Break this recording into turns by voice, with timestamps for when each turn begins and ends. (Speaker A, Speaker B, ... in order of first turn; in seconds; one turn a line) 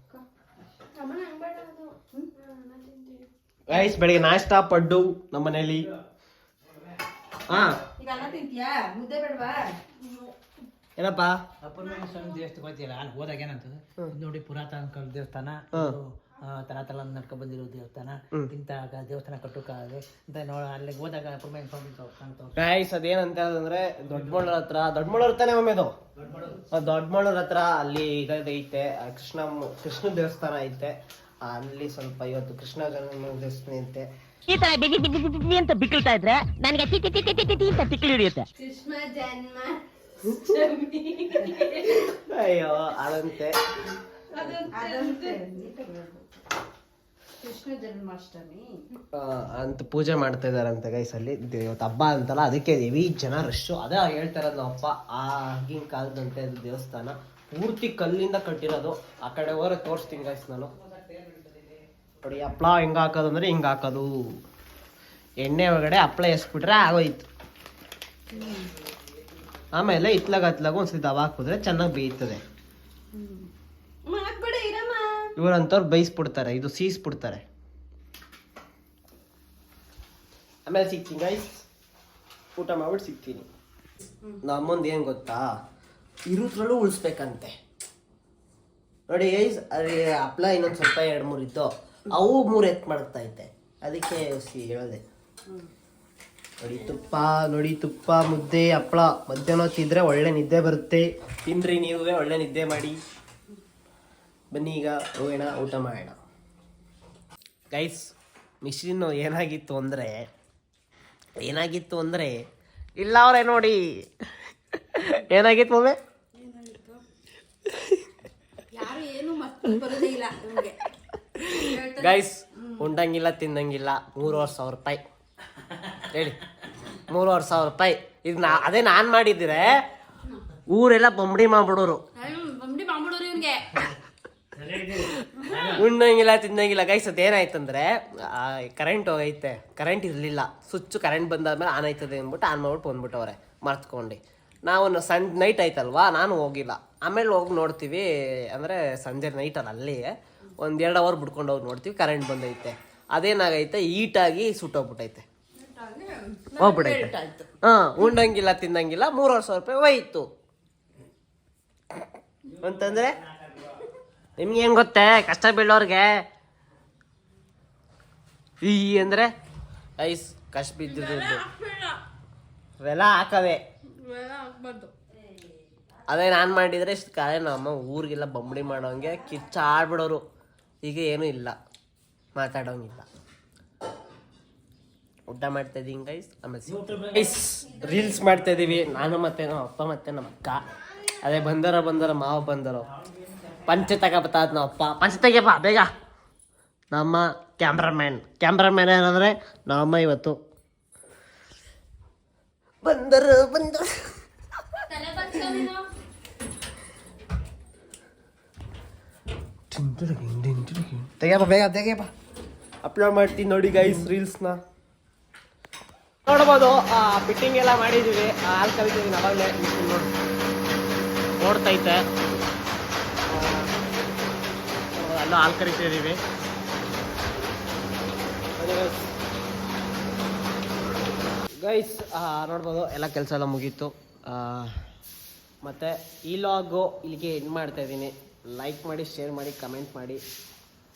Speaker A: 0.9-3.3
Speaker B: 3.7-5.9
Speaker B: 7.5-7.8
Speaker C: 8.0-9.7
Speaker A: 10.0-10.3
Speaker B: 11.0-11.4
Speaker D: 11.6-22.6
Speaker A: 11.8-12.4
Speaker B: 15.7-16.0
Speaker B: 22.6-25.9
Speaker D: 26.2-26.6
Speaker B: 26.7-34.1
Speaker E: 34.5-38.5
Speaker A: 38.6-39.8
Speaker A: 40.4-42.1
Speaker C: 41.3-42.0
Speaker B: 42.3-43.6
Speaker A: 44.4-45.4
Speaker C: 44.7-46.2
Speaker C: 47.4-48.8
Speaker B: 49.1-60.7
Speaker B: 62.2-64.1
Speaker B: 65.4-67.3
Speaker C: 68.3-68.7
Speaker B: 69.7-72.4
Speaker C: 73.1-73.5
Speaker A: 74.1-74.4
Speaker C: 74.1-75.0
Speaker B: 75.3-77.4
Speaker B: 80.7-81.7
Speaker B: 82.6-83.5
Speaker B: 84.4-85.5
Speaker B: 86.3-87.5
Speaker B: 89.1-95.0
Speaker B: 96.6-103.0
Speaker B: 104.5-106.2
Speaker B: 107.7-108.1
Speaker B: 108.6-110.2
Speaker B: 111.4-112.4
Speaker B: 113.0-114.1
Speaker B: 114.9-116.0
Speaker C: 116.4-117.0
Speaker C: 118.7-120.8
Speaker B: 121.4-125.0
Speaker C: 121.6-122.1
Speaker B: 126.1-126.4
Speaker B: 127.1-129.8
Speaker B: 130.7-132.0
Speaker A: 132.3-133.5
Speaker C: 132.3-133.4
Speaker D: 134.6-135.8
Speaker B: 135.7-155.2
Speaker C: 155.6-157.4
Speaker B: 156.6-160.3
Speaker B: 162.6-163.2
Speaker B: 164.4-166.2
Speaker B: 168.6-169.3
Speaker B: 170.0-171.5
Speaker A: 171.0-171.9
Speaker B: 172.8-173.6
Speaker A: 174.0-174.9
Speaker B: 176.1-180.2
Speaker B: 180.8-181.6
Speaker B: 182.3-183.1
Speaker B: 185.3-190.6
Speaker D: 186.7-187.3
Speaker B: 191.2-192.9
Speaker B: 193.6-195.9
Speaker B: 196.9-200.3
Speaker B: 202.8-204.1
Speaker A: 205.0-205.8
Speaker B: 205.2-205.6
Speaker B: 209.7-212.1
Speaker B: 212.8-214.6
Speaker B: 216.3-220.1
Speaker B: 221.4-222.0
Speaker B: 223.3-223.8
Speaker B: 224.9-226.2
Speaker B: 228.6-229.1
Speaker B: 231.6-234.8
Speaker B: 235.6-240.2